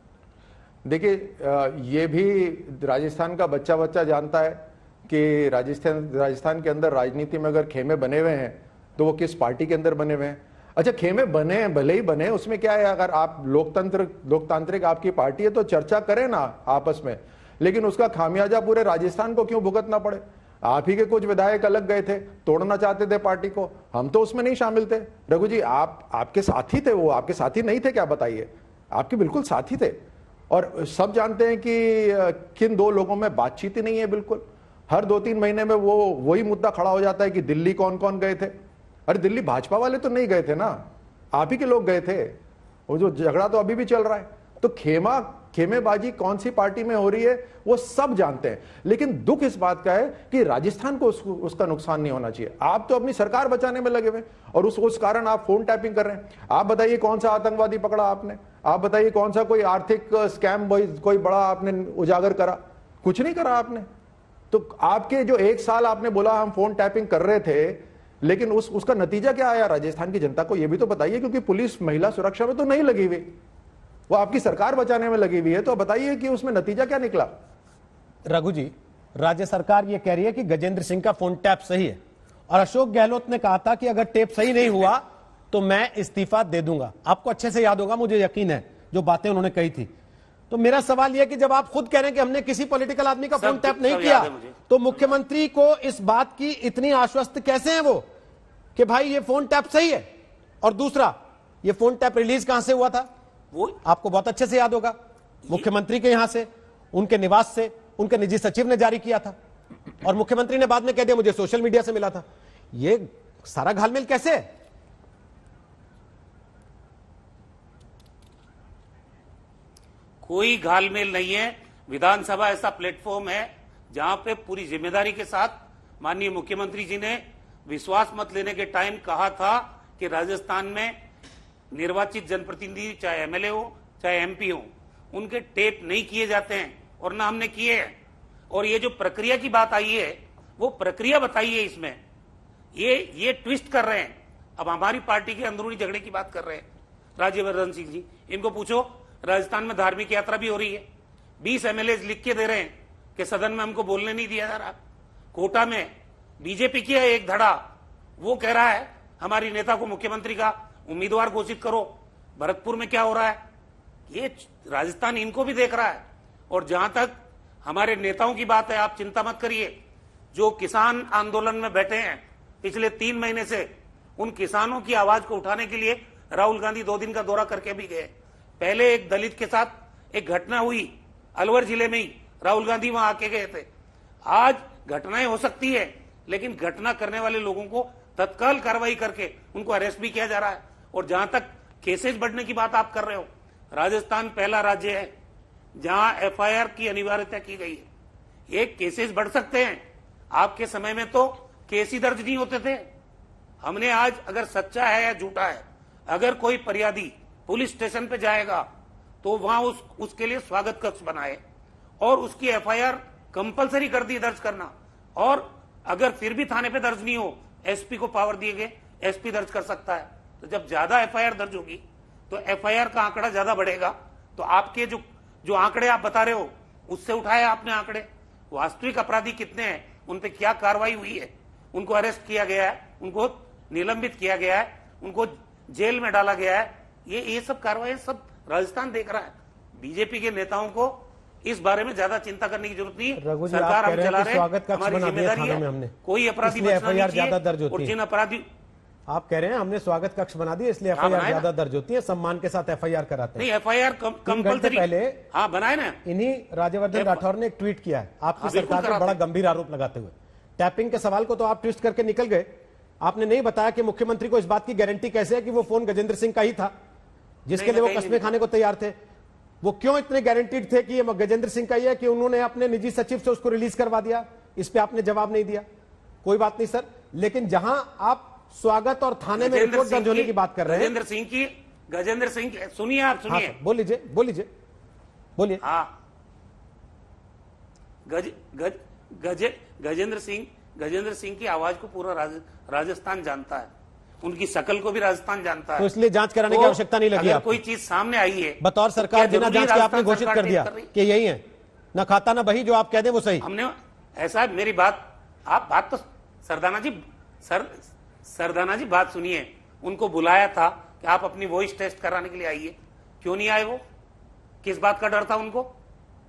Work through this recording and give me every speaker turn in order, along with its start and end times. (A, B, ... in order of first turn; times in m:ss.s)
0:00.8-0:30.0 A
0:30.5-0:38.5 A
0:39.1-0:42.4 A
0:42.9-1:03.9 A
1:04.5-1:13.3 A
1:14.1-1:17.3 A
1:18.3-1:22.0 B
1:22.5-1:29.9 B
1:30.5-1:38.0 B
1:33.4-1:34.6 C
1:38.8-1:40.1 B
1:40.6-1:43.1 B
1:43.5-1:43.8 C
1:43.8-1:45.0 B
1:45.5-1:49.4 B
1:50.0-1:54.4 B
2:00.2-2:11.0 C
2:11.7-2:18.0 C
2:18.5-2:22.0 C
2:22.8-2:26.6 C
2:27.2-2:30.9 C
2:31.4-2:34.8 C
2:35.3-2:37.6 C
2:38.2-2:43.4 C
2:44.1-2:49.8 C
2:50.3-3:03.7 C
3:04.3-3:15.1 C
3:15.8-3:17.9 C
3:18.5-3:22.9 C
3:23.6-3:28.7 C
3:29.2-3:31.4 C
3:32.0-4:08.5 C
4:03.2-4:07.9 B
4:09.1-4:13.5 B
4:11.0-4:11.5 C
4:13.4-4:16.0 C
4:14.3-4:15.2 B
4:16.0-4:22.5 B
4:16.9-4:17.3 C
4:18.4-4:19.2 C
4:23.0-4:26.7 B
4:27.5-4:29.0 B
4:27.5-4:28.3 C
4:29.6-4:35.6 B
4:36.2-4:40.9 B
4:39.4-4:43.6 C
4:43.3-4:44.5 B
4:45.4-4:45.6 B
4:45.6-4:45.9 C
4:48.1-4:53.7 C
4:54.2-4:55.9 C
4:55.8-4:57.6 B
4:56.5-5:00.9 C
4:58.6-5:01.4 B
5:01.9-5:03.4 B
5:03.4-5:13.8 C
5:14.6-5:15.7 C